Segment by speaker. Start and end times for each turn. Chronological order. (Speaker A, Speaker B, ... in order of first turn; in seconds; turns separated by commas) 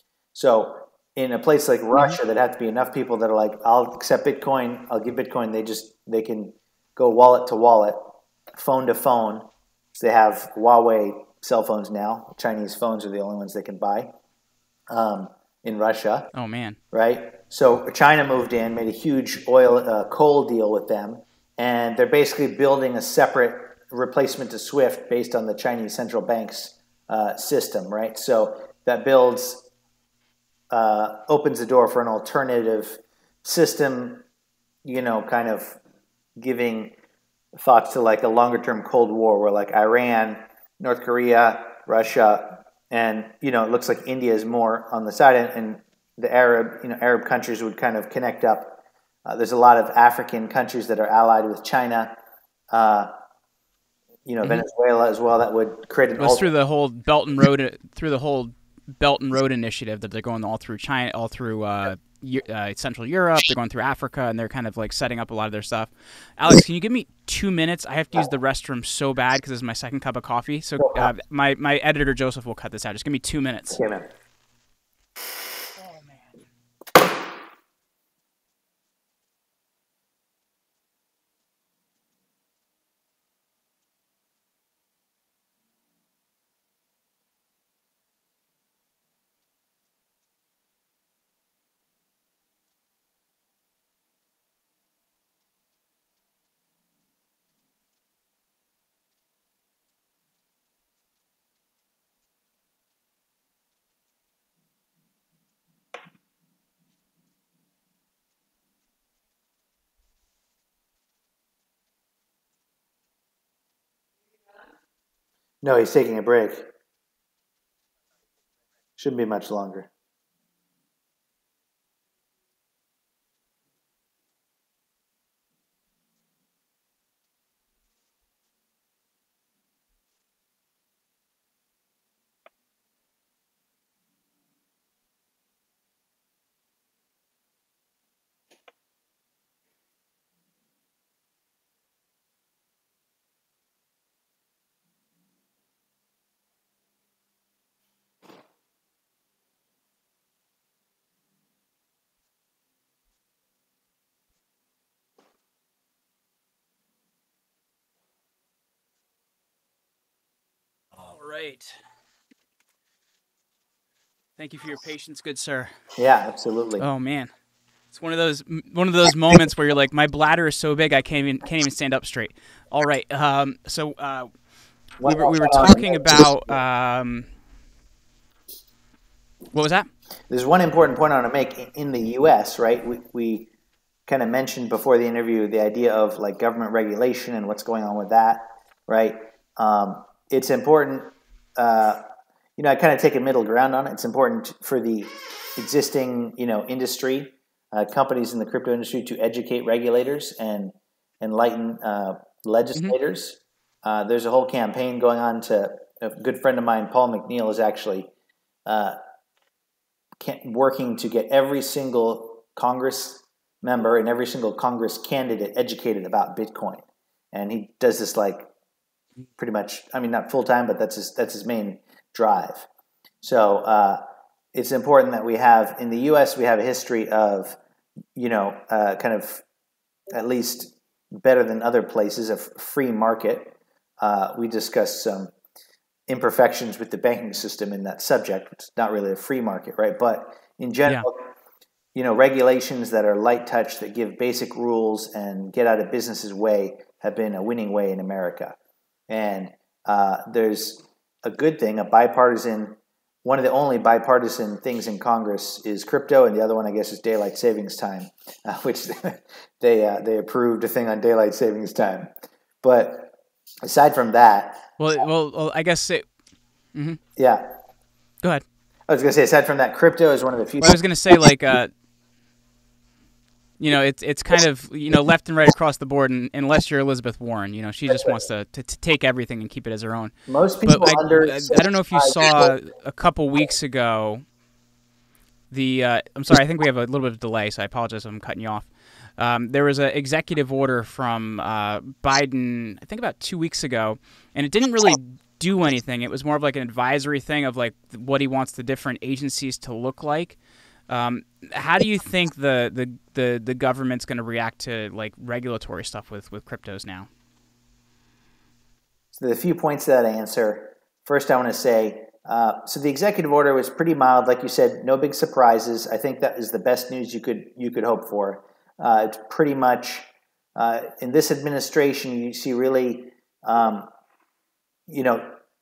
Speaker A: 0.3-14.1, Speaker A: 14.9-16.3, Speaker B: 16.3-16.8, Speaker A: 16.9-29.7, Speaker A: 30.7-34.2, Speaker A: 34.8-35.8, Speaker A: 36.4-36.9, Speaker A: 37.5-52.1, Speaker A: 52.7-53.1, Speaker A: 54.2-56.5, Speaker B: 56.2-73.9, Speaker A: 70.8-71.1, Speaker A: 73.7-74.1, Speaker A: 115.6-116.7, Speaker A: 119.0-119.9, Speaker B: 160.9-161.7, Speaker B: 164.4-165.7, Speaker A: 166.0-166.8, Speaker B: 166.8-167.3, Speaker B: 167.9-174.3, Speaker A: 175.0-176.6, Speaker B: 175.0-177.3, Speaker B: 179.5-179.9, Speaker A: 180.3-183.5, Speaker A: 184.1-192.0, Speaker A: 192.6-208.1, Speaker A: 208.7-209.0, Speaker A: 210.2-218.5, Speaker A: 219.4-222.7, Speaker A: 223.2-224.0, Speaker A: 224.5-227.6, Speaker A: 228.1-229.4, Speaker A: 230.1-235.3, Speaker A: 236.1-241.3, Speaker A: 241.9-248.6, Speaker A: 249.1-262.1, Speaker A: 262.6-265.1, Speaker B: 264.8-266.0, Speaker B: 266.7-267.0, Speaker A: 267.2-267.5, Speaker A: 268.9-270.8, Speaker B: 270.6-271.7, Speaker B: 273.6-280.1, Speaker A: 280.3-282.5, Speaker B: 280.6-284.2, Speaker B: 285.5-300.4, Speaker B: 300.9-307.1, Speaker A: 309.1-323.9, Speaker A: 324.9-325.3